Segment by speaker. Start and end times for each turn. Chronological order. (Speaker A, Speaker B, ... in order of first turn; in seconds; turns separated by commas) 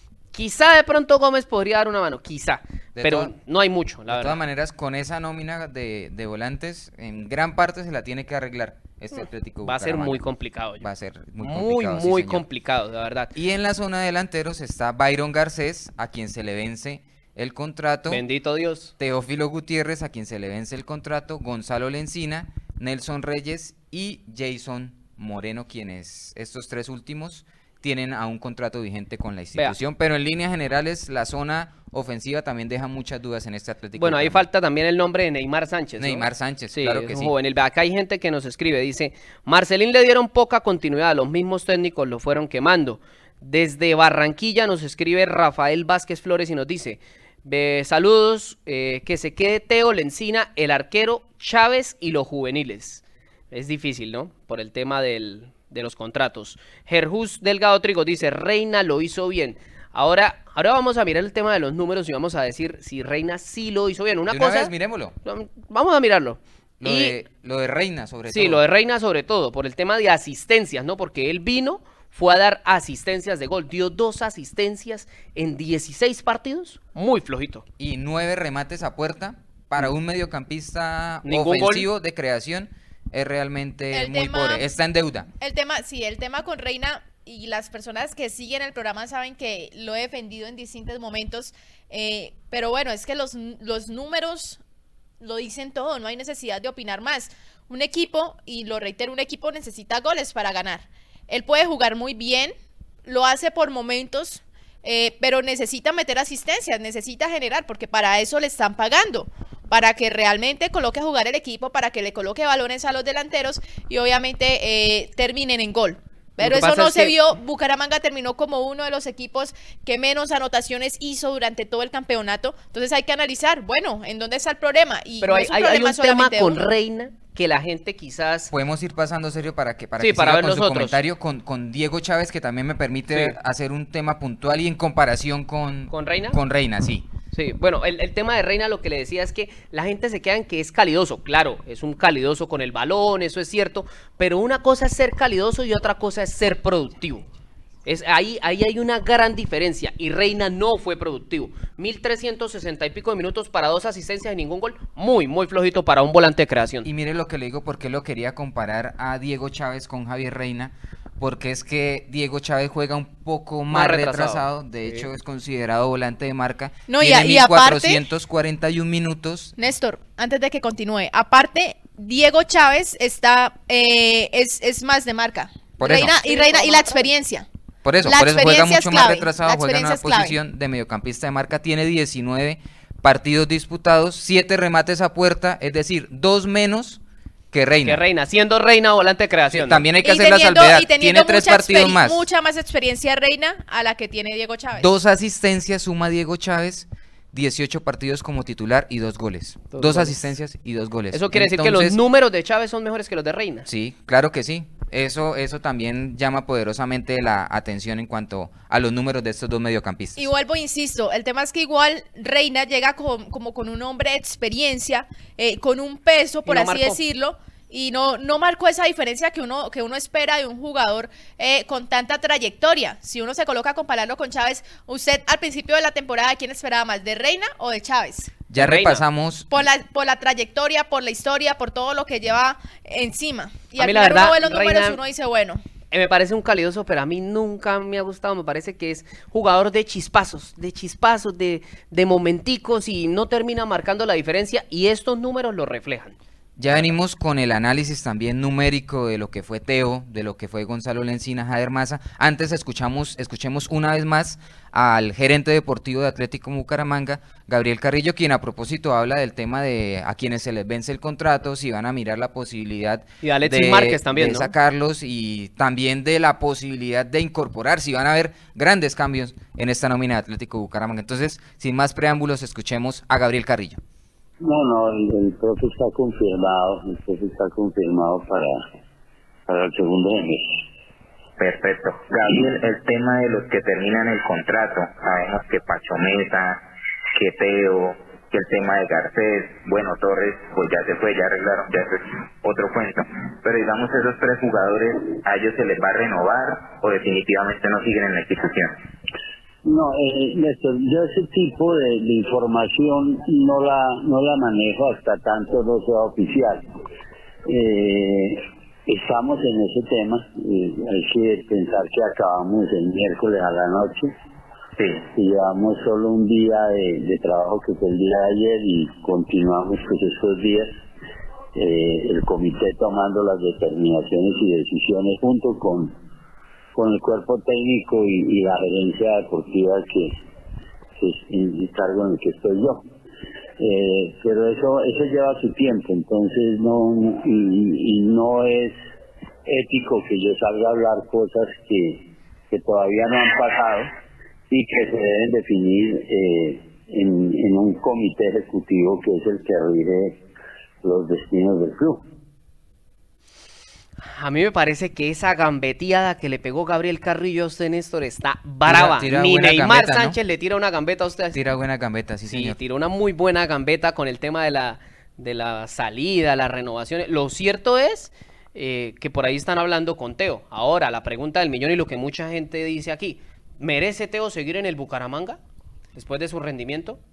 Speaker A: 0.3-4.4, Speaker B: 3.0-3.3, Speaker B: 4.1-10.2, Speaker A: 9.6-10.9, Speaker B: 10.8-12.4, Speaker A: 11.4-13.3, Speaker B: 13.3-18.2, Speaker A: 18.1-18.9, Speaker B: 19.0-34.5, Speaker A: 34.0-64.7, Speaker B: 36.0-37.3, Speaker B: 64.3-65.1, Speaker A: 65.2-67.2, Speaker B: 66.8-68.6, Speaker A: 68.3-77.7, Speaker B: 77.8-85.3, Speaker A: 81.2-81.9, Speaker C: 83.9-84.7, Speaker C: 85.4-94.6, Speaker C: 95.2-102.5, Speaker C: 103.0-126.7, Speaker A: 116.4-117.1, Speaker A: 125.2-128.5, Speaker B: 128.5-137.1, Speaker A: 130.0-131.0, Speaker A: 133.1-133.4, Speaker A: 135.9-136.4, Speaker A: 137.3-147.2, Speaker A: 147.8-156.9, Speaker B: 156.8-169.6, Speaker A: 163.7-165.1, Speaker C: 166.9-168.0, Speaker C: 169.6-177.5, Speaker B: 175.8-176.2, Speaker A: 175.8-177.1, Speaker B: 177.8-187.0, Speaker C: 178.0-180.4, Speaker B: 187.5-188.0, Speaker A: 187.8-189.9, Speaker B: 189.5-192.3, Speaker C: 190.0-194.9, Speaker B: 194.8-202.0, Speaker A: 199.7-200.1, Speaker A: 201.1-203.7, Speaker B: 203.7-210.3, Speaker C: 210.2-228.3, Speaker A: 216.5-217.0, Speaker B: 228.5-229.5, Speaker A: 228.6-229.0, Speaker C: 229.5-235.6, Speaker A: 233.8-235.0, Speaker A: 235.9-246.2, Speaker B: 246.6-273.8, Speaker A: 263.2-264.5, Speaker D: 274.4-278.6, Speaker D: 279.5-280.5, Speaker E: 281.4-286.6, Speaker E: 287.2-298.7, Speaker D: 299.6-306.6, Speaker D: 307.5-314.1, Speaker E: 314.8-315.0, Speaker D: 315.1-320.7, Speaker D: 321.6-325.9, Speaker D: 326.7-330.1, Speaker D: 331.0-332.8, Speaker D: 333.6-338.8, Speaker D: 339.5-343.9, Speaker D: 344.5-350.2, Speaker D: 350.8-352.0, Speaker A: 354.0-361.4, Speaker B: 358.7-360.2, Speaker B: 361.3-362.6, Speaker A: 362.3-375.4, Speaker A: 375.9-377.0